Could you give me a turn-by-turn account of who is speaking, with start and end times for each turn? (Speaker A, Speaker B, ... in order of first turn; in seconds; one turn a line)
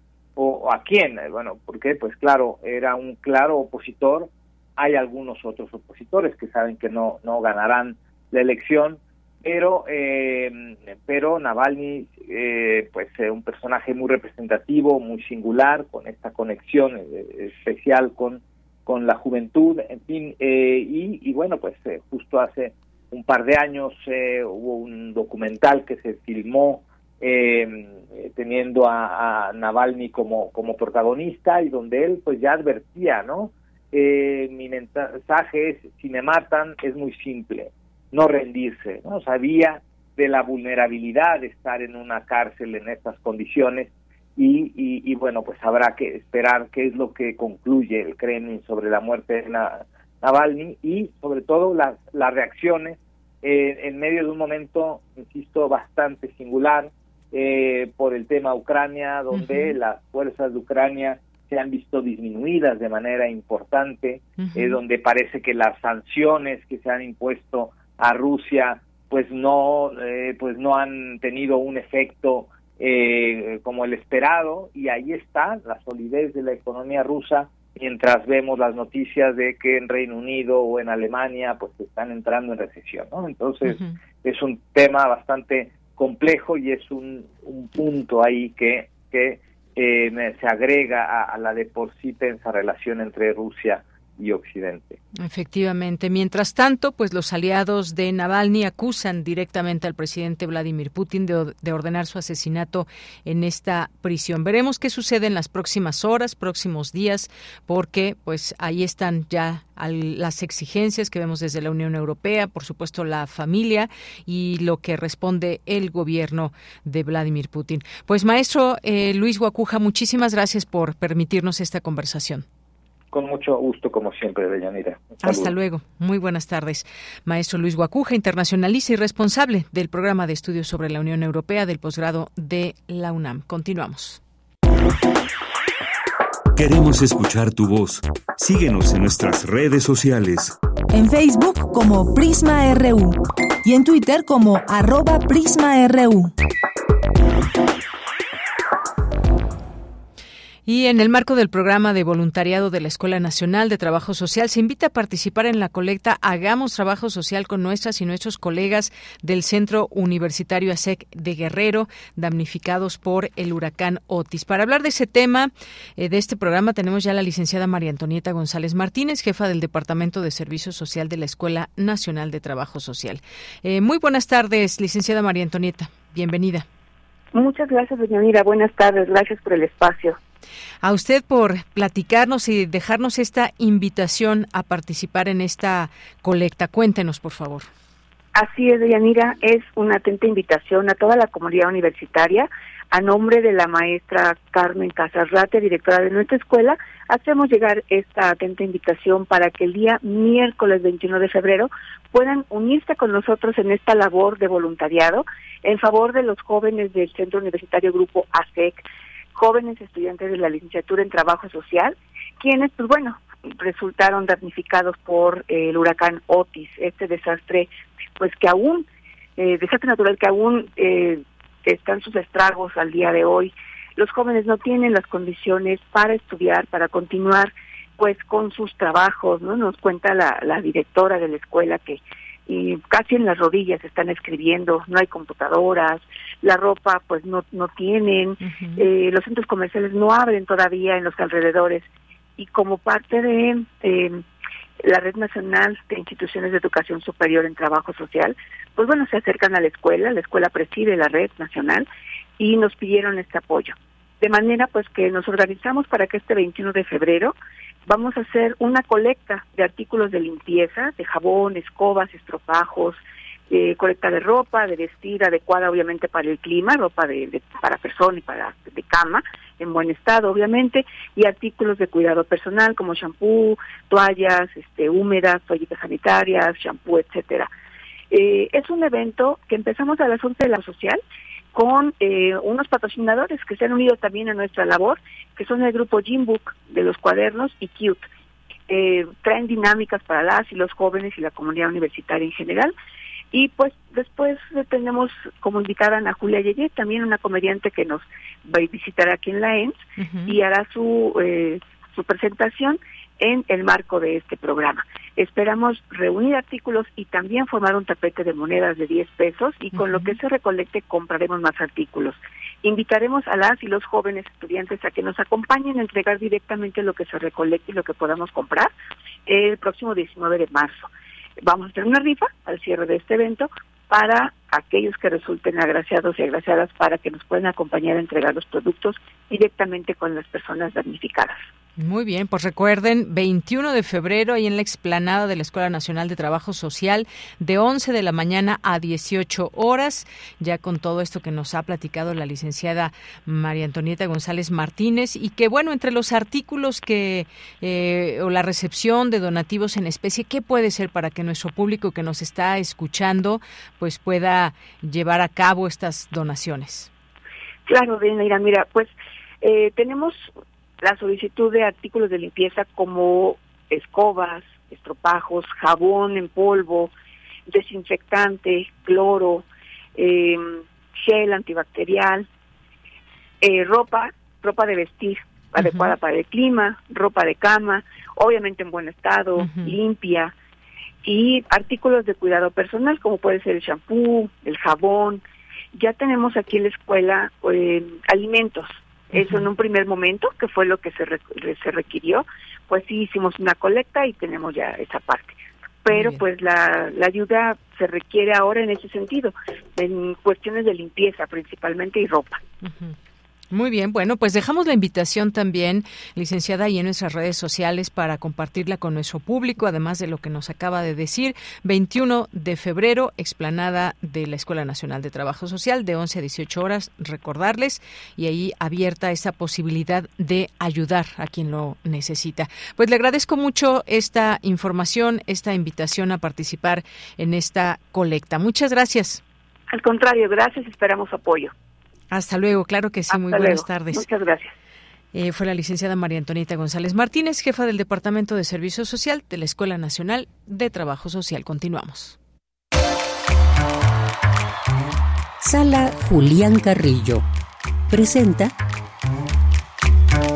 Speaker A: 0.4-95.0
Speaker B: 59.3-59.8
Speaker B: 64.4-64.8
Speaker B: 83.7-83.9
Speaker B: 95.2-122.4
Speaker A: 123.1-125.5
Speaker B: 125.2-134.2
Speaker C: 136.6-140.5
Speaker D: 140.9-146.3
Speaker B: 150.7-176.7
Speaker E: 177.3-180.2
Speaker B: 180.8-187.7
Speaker E: 188.3-208.8
Speaker E: 209.3-218.9
Speaker E: 219.4-241.9
Speaker B: 238.4-238.8
Speaker E: 242.4-244.2
Speaker E: 244.8-251.9
Speaker E: 252.4-257.4
Speaker E: 257.9-277.5
Speaker E: 278.1-281.0
Speaker E: 281.5-288.0
Speaker E: 288.7-292.7
Speaker E: 293.3-318.7
Speaker B: 300.0-300.4
Speaker B: 309.7-310.1
Speaker E: 319.3-320.9
Speaker E: 321.4-331.4
Speaker B: 331.8-356.9
Speaker E: 357.7-360.3
Speaker E: 360.8-366.9
Speaker E: 367.5-372.3
Speaker E: 373.4-380.3
Speaker B: 375.6-375.9
Speaker B: 379.4-379.8
Speaker E: 381.0-385.2
Speaker E: 385.7-402.4
Speaker B: 389.1-389.4
Speaker B: 395.9-396.2
Speaker B: 402.6-402.9
Speaker B: 403.5-429.2
Speaker E: 429.7-431.5
Speaker B: 432.1-434.1
Speaker E: 433.1-434.5
Speaker B: 435.1-442.2
Speaker F: 445.4-447.2
Speaker F: 447.9-448.5